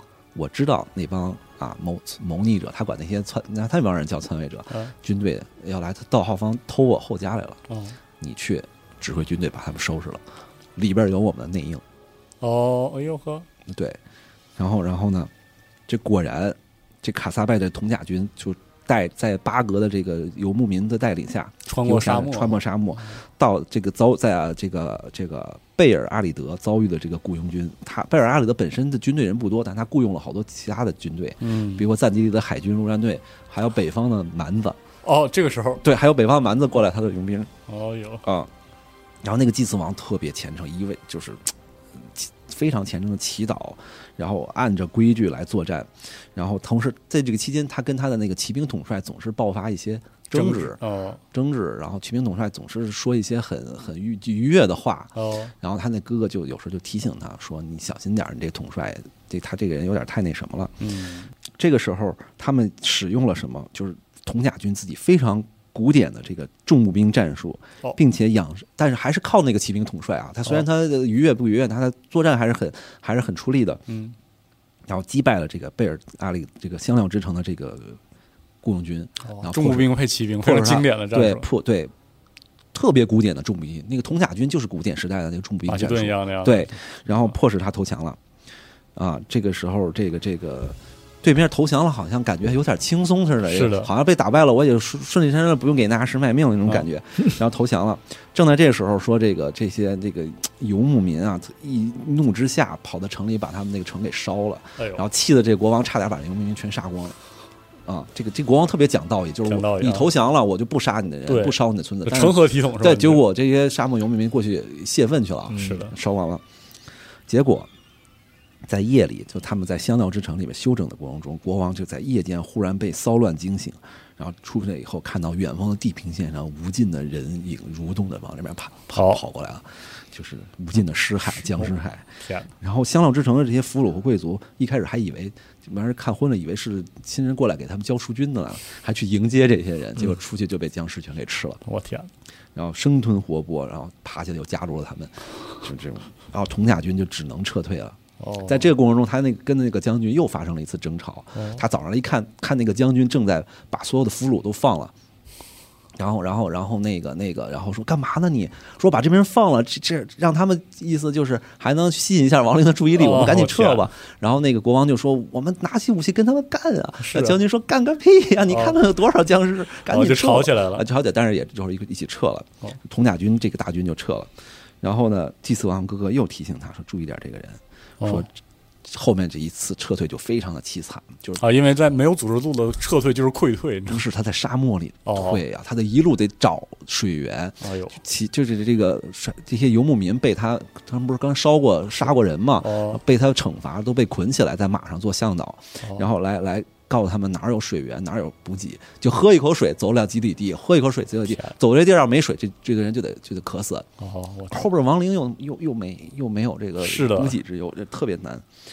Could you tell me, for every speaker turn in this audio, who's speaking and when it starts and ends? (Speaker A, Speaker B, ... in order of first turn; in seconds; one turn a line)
Speaker A: 0.3-7.6
Speaker B: 7.7-8.0
Speaker A: 8.2-10.2
Speaker A: 10.8-11.8
Speaker B: 12.4-13.5
Speaker A: 13.7-14.0
Speaker A: 14.6-15.3
Speaker A: 15.9-34.8
Speaker B: 21.7-23.1
Speaker B: 31.4-31.9
Speaker B: 35.0-35.8
Speaker A: 35.8-37.5
Speaker B: 37.7-38.2
Speaker A: 38.2-38.5
Speaker A: 39.2-41.5
Speaker A: 42.1-50.8
Speaker B: 50.3-51.2
Speaker A: 51.3-60.8
Speaker B: 55.1-55.5
Speaker B: 60.8-61.3
Speaker A: 61.6-73.8
Speaker B: 73.9-74.1
Speaker A: 74.9-78.0
Speaker A: 78.6-81.9
Speaker B: 79.2-81.5
Speaker A: 82.7-88.2
Speaker B: 85.7-87.3
Speaker A: 88.9-107.2
Speaker B: 93.5-93.9
Speaker B: 104.8-105.0
Speaker A: 107.8-116.4
Speaker B: 109.5-110.1
Speaker B: 111.2-113.2
Speaker B: 115.5-115.9
Speaker A: 117.3-117.7
Speaker A: 118.7-132.1
Speaker B: 128.9-129.2
Speaker B: 131.4-132.5
Speaker A: 132.6-141.6
Speaker B: 141.6-142.1
Speaker A: 142.5-154.9
Speaker B: 148.2-148.7
Speaker B: 151.3-151.6
Speaker A: 156.0-174.3
Speaker B: 162.9-163.8
Speaker B: 167.0-167.4
Speaker B: 168.5-168.8
Speaker B: 169.9-170.8
Speaker A: 174.8-178.3
Speaker B: 178.0-178.2
Speaker A: 178.8-181.4
Speaker B: 181.4-184.0
Speaker A: 183.9-203.9
Speaker B: 185.1-185.4
Speaker B: 187.6-188.0
Speaker B: 192.6-193.0
Speaker B: 201.3-201.6
Speaker B: 204.0-204.6
Speaker A: 204.5-208.4
Speaker B: 206.8-207.3